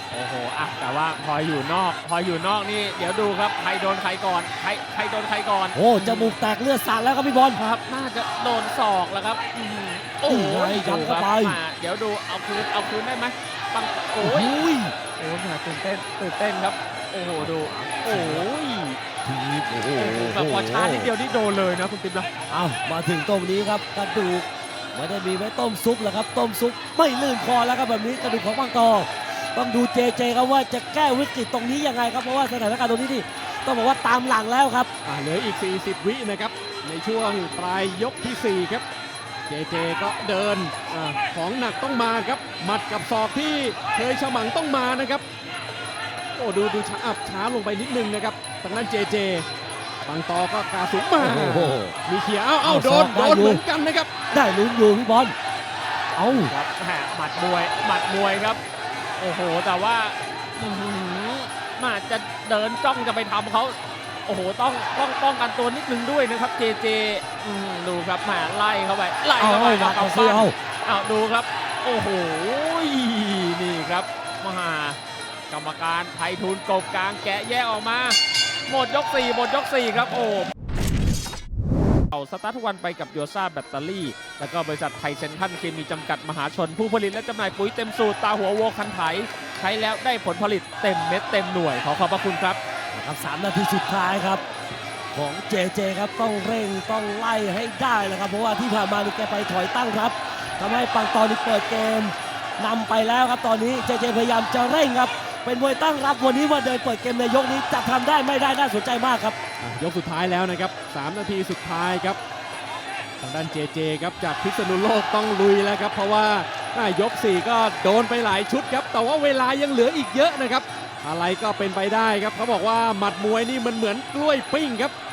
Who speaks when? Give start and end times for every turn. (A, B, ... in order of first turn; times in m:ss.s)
0:00.1-0:06.4 A
0:05.7-0:07.6 B
0:07.6-0:14.5 A
0:10.3-0:11.6 B
0:14.2-0:14.9 B
0:15.2-0:19.0 A
0:17.4-0:18.4 B
0:19.2-0:21.1 B
0:20.0-0:22.3 A
0:22.5-0:34.9 B
0:35.0-0:38.8 C
0:39.5-0:45.2 C
0:46.4-0:49.4 C
0:50.0-0:54.1 C
0:51.2-0:52.0 B
0:52.6-0:53.6 B
0:54.3-0:55.3 B
0:56.2-0:56.5 B
0:56.3-0:58.6 A
0:59.2-1:15.0 A
1:09.4-1:10.6 B
1:15.5-1:20.5 A
1:22.1-1:32.6 A
1:32.9-1:34.4 B
1:35.1-1:49.4 B
1:49.6-1:52.2 C
1:53.2-2:04.9 C